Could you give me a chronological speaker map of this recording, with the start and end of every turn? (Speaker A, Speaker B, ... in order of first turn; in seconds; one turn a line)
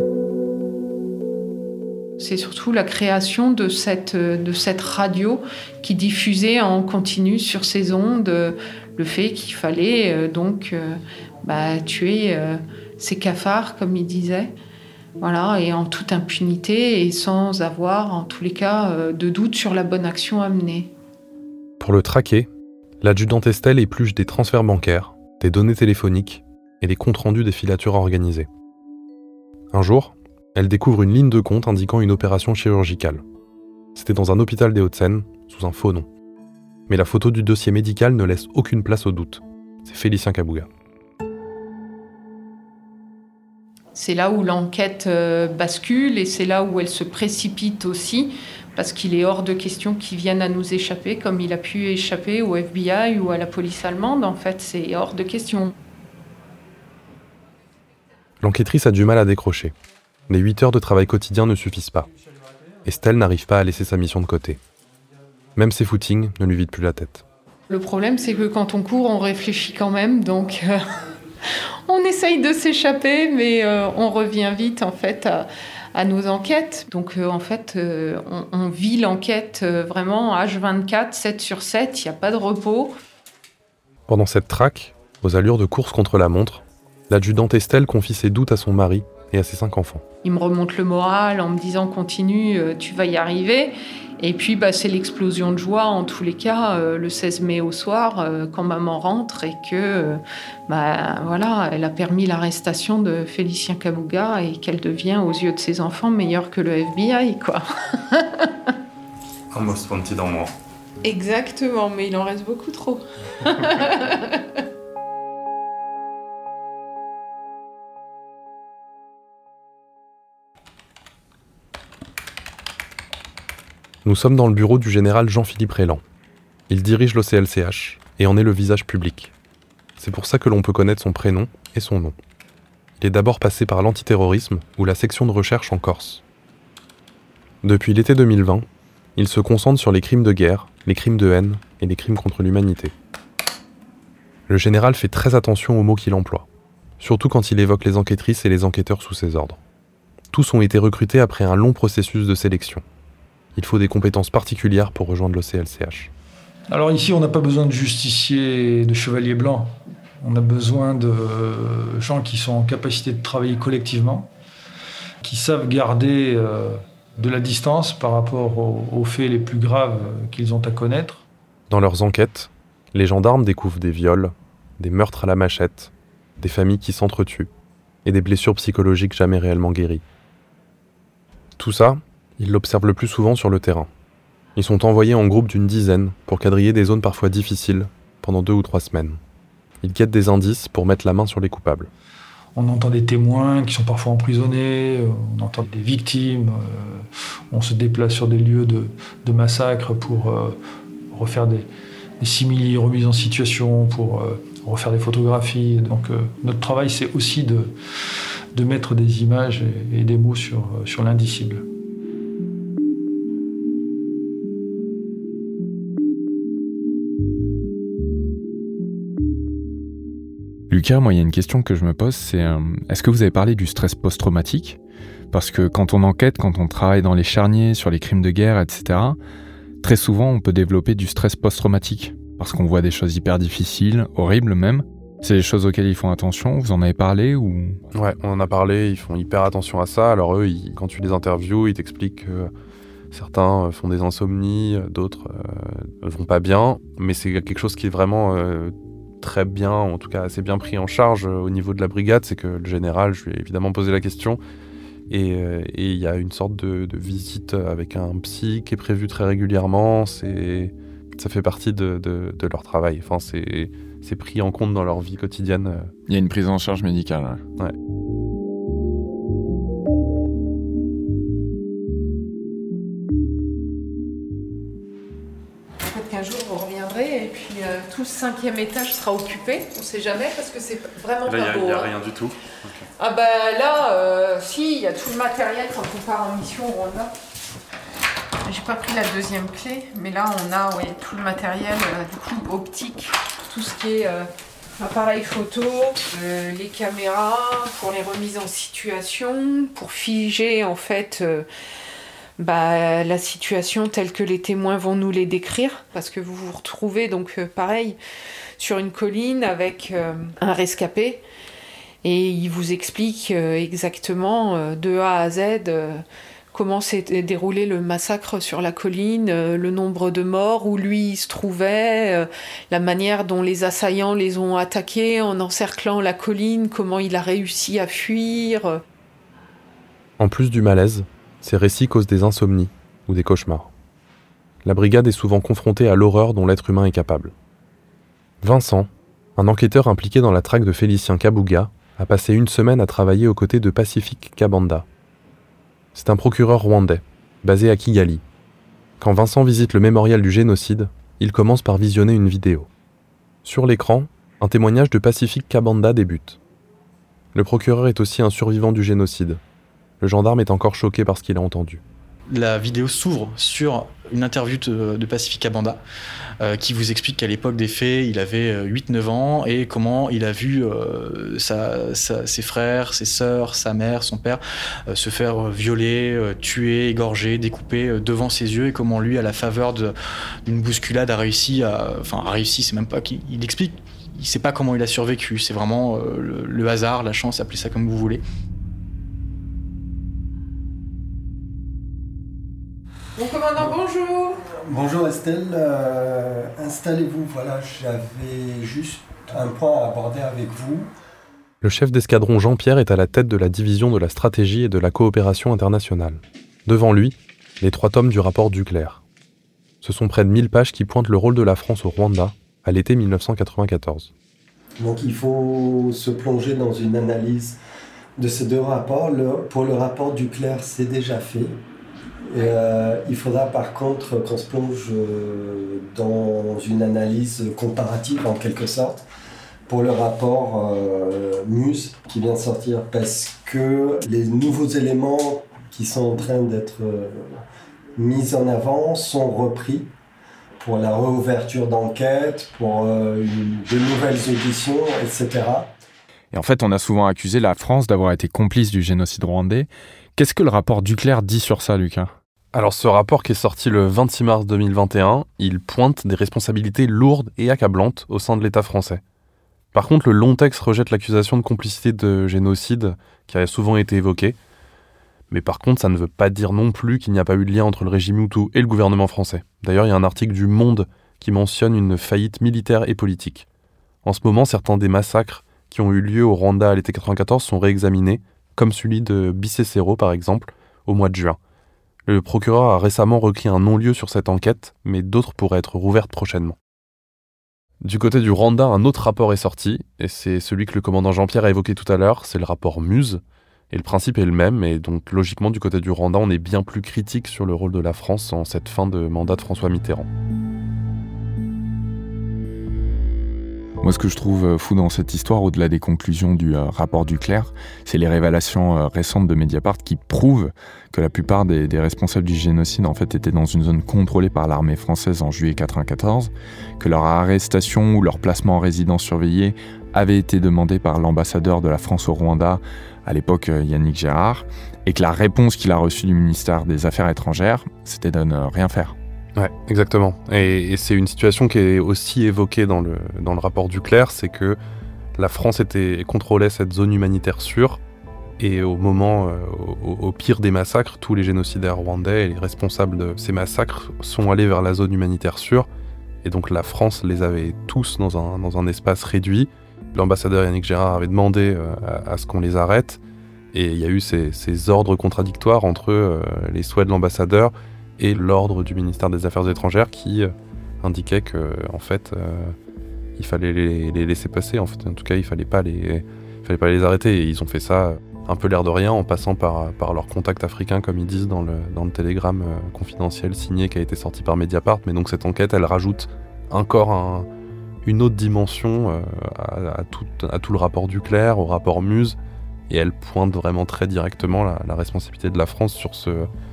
Speaker A: 2.2-14.5
Speaker A: 15.2-20.9
Speaker B: 21.8-22.5
Speaker B: 23.0-28.5
Speaker B: 29.7-33.2
Speaker B: 34.0-36.1
Speaker B: 36.9-40.7
Speaker A: 43.9-55.7
Speaker B: 58.4-59.7
Speaker B: 60.3-62.1
Speaker B: 62.9-64.6
Speaker B: 65.6-67.2
Speaker A: 67.7-70.8
Speaker A: 71.9-82.9
Speaker B: 84.1-90.0
Speaker A: 90.2-108.7
Speaker B: 109.5-110.5
Speaker A: 111.0-114.5
Speaker B: 124.0-126.0
Speaker B: 126.7-129.3
Speaker B: 130.0-132.2
Speaker B: 133.0-136.2
Speaker B: 137.6-142.9
Speaker B: 144.5-146.5
Speaker B: 147.0-149.6
Speaker B: 150.3-152.8
Speaker B: 153.6-156.1
Speaker C: 156.7-164.3
Speaker C: 165.2-171.2
Speaker B: 171.7-177.5
Speaker B: 178.1-180.0
Speaker B: 181.6-183.9
Speaker B: 184.6-189.2
Speaker B: 189.8-191.9
Speaker C: 192.6-200.6
Speaker C: 201.1-201.7
Speaker C: 202.2-207.7
Speaker C: 208.6-211.6
Speaker D: 220.7-224.8
Speaker D: 225.3-229.2
Speaker D: 229.8-237.8
Speaker B: 237.9-242.5
Speaker B: 243.1-254.4
Speaker B: 255.1-265.9
Speaker D: 266.1-267.4
Speaker A: 275.9-281.9
Speaker B: 281.2-282.9
Speaker A: 283.0-287.1
Speaker A: 288.4-301.5
Speaker A: 302.4-308.0
Speaker A: 308.6-311.2
Speaker A: 312.0-328.8
Speaker B: 330.2-333.7
Speaker B: 334.6-337.3
Speaker B: 338.4-344.9
Speaker B: 345.9-348.2
Speaker B: 349.0-352.7
Speaker B: 353.4-356.4
Speaker B: 357.3-359.4
Speaker B: 360.0-361.8
Speaker E: 362.4-365.8
Speaker E: 366.4-374.4
Speaker E: 374.9-379.9
Speaker E: 380.5-388.2
Speaker A: 393.2-394.4
Speaker F: 394.5-400.9
Speaker B: 401.6-409.0
Speaker B: 409.8-414.1
Speaker F: 414.8-417.6
Speaker F: 418.2-421.6
Speaker F: 422.3-429.0
Speaker F: 429.7-437.4
Speaker F: 438.0-439.9
Speaker F: 440.6-445.7
Speaker D: 446.3-452.1
Speaker B: 452.5-459.0
Speaker B: 459.7-464.4
Speaker B: 465.3-473.5
Speaker B: 474.0-481.4
Speaker B: 482.1-486.6
Speaker B: 487.8-500.1
Speaker D: 503.8-529.0
Speaker B: 529.4-534.6
Speaker B: 535.2-537.8
Speaker B: 538.4-545.7
Speaker B: 546.2-553.0
Speaker B: 553.5-562.6
Speaker B: 563.2-577.3
Speaker B: 577.8-582.2
Speaker B: 582.7-586.3